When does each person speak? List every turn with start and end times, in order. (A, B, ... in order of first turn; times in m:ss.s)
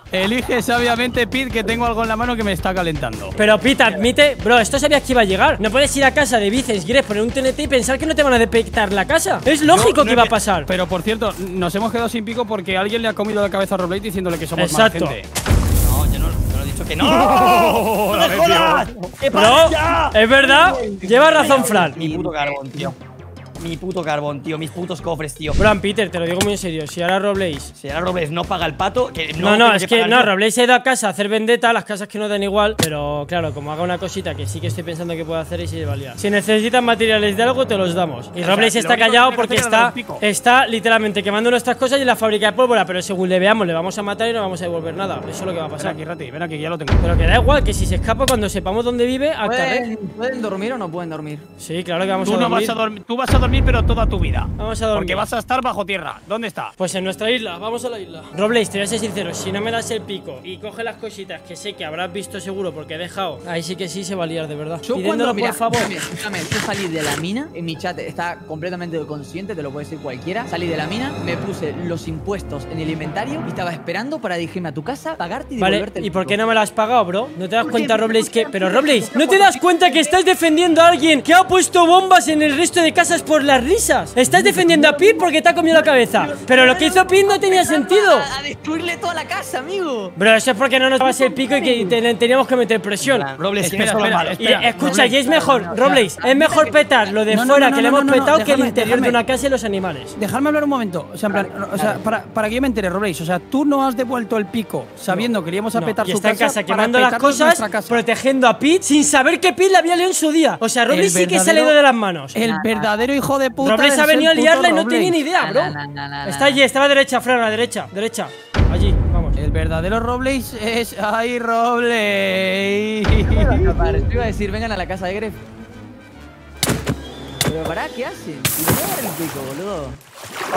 0:00.1-0:03.4 A
0:03.4-0:10.7 B
0:09.7-0:10.4 C
0:10.6-0:15.3 A
0:14.6-0:15.2 B
0:15.8-0:22.9 C
0:17.0-0:19.1 A
0:19.3-0:22.0 B
0:20.6-0:22.9 D
0:23.6-0:25.6 C
0:25.6-0:27.7 B
0:27.8-0:30.3 C
0:29.4-0:46.0 B
0:38.4-0:40.2 A
0:45.8-0:47.0 A
0:47.0-0:49.9 B
0:49.4-0:51.4 D
0:51.6-0:52.8 B
0:52.2-0:56.7 A
0:54.6-0:55.2 B
0:56.8-1:06.0 B
1:04.8-1:16.4 D
1:15.6-1:28.3 B
1:17.6-1:20.2 D
1:24.3-1:30.2 D
1:30.2-1:33.3 B
1:31.0-1:32.0 D
1:33.0-1:34.6 C
1:33.6-1:35.2 A
1:34.4-1:40.2 B
1:34.8-1:37.0 D
1:37.3-1:39.2 A
1:40.2-1:48.0 A
1:41.3-1:42.0 D
1:45.1-1:52.4 B
1:50.9-1:51.8 A
1:52.3-1:55.2 A
1:52.4-1:53.0 D
1:53.6-1:59.4 B
1:55.4-1:56.6 D
1:59.4-2:04.0 A
2:03.2-2:05.4 D
2:07.4-2:10.0 D